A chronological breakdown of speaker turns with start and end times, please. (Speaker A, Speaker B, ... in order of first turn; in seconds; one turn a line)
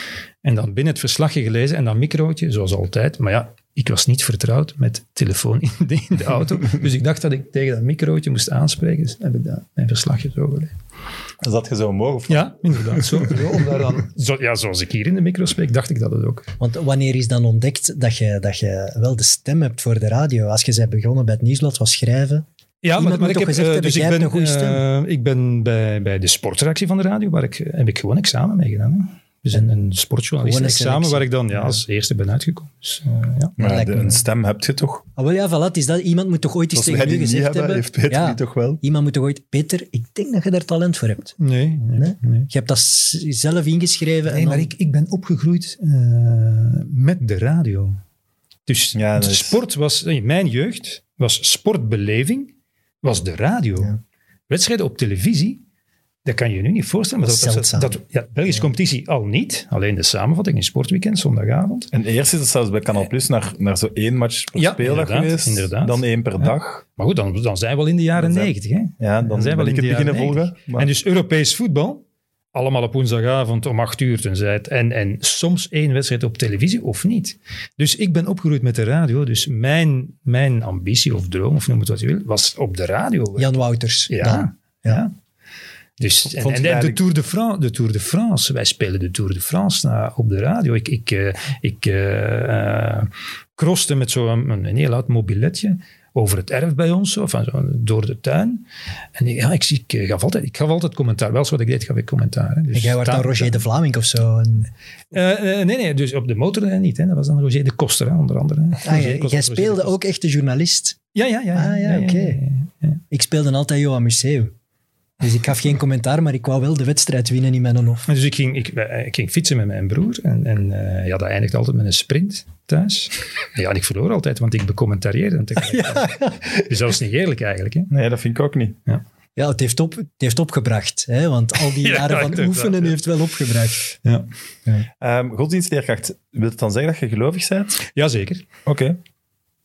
Speaker A: 0.4-10.7
Speaker B: 11.4-13.3
Speaker A: 12.3-16.5
Speaker C: 16.6-24.8
Speaker A: 22.8-33.5
Speaker C: 30.4-31.8
Speaker B: 33.6-35.0
Speaker C: 33.6-34.2
Speaker C: 35.2-41.3
Speaker B: 36.7-38.8
Speaker A: 41.4-42.5
Speaker C: 42.0-44.7
Speaker A: 44.3-48.0
Speaker A: 48.6-52.5
Speaker B: 48.9-49.6
Speaker A: 53.0-54.0
Speaker A: 54.5-55.6
Speaker A: 56.2-61.9
Speaker C: 57.2-58.0
Speaker B: 61.9-66.8
Speaker A: 64.5-72.0
Speaker B: 68.2-70.9
Speaker A: 72.5-83.6
Speaker C: 83.4-85.0
Speaker A: 84.1-85.1
Speaker A: 86.0-103.6
Speaker B: 86.3-87.0
Speaker C: 102.7-104.7
Speaker A: 105.1-109.9
Speaker C: 108.8-111.0
Speaker A: 111.1-113.0
Speaker C: 111.5-112.4
Speaker C: 113.1-114.5
Speaker C: 115.2-118.1
Speaker A: 118.1-127.9
Speaker C: 125.7-126.4
Speaker B: 127.9-128.8
Speaker C: 129.3-133.8
Speaker A: 131.7-132.9
Speaker B: 135.0-137.8
Speaker A: 137.8-138.4
Speaker B: 138.6-139.0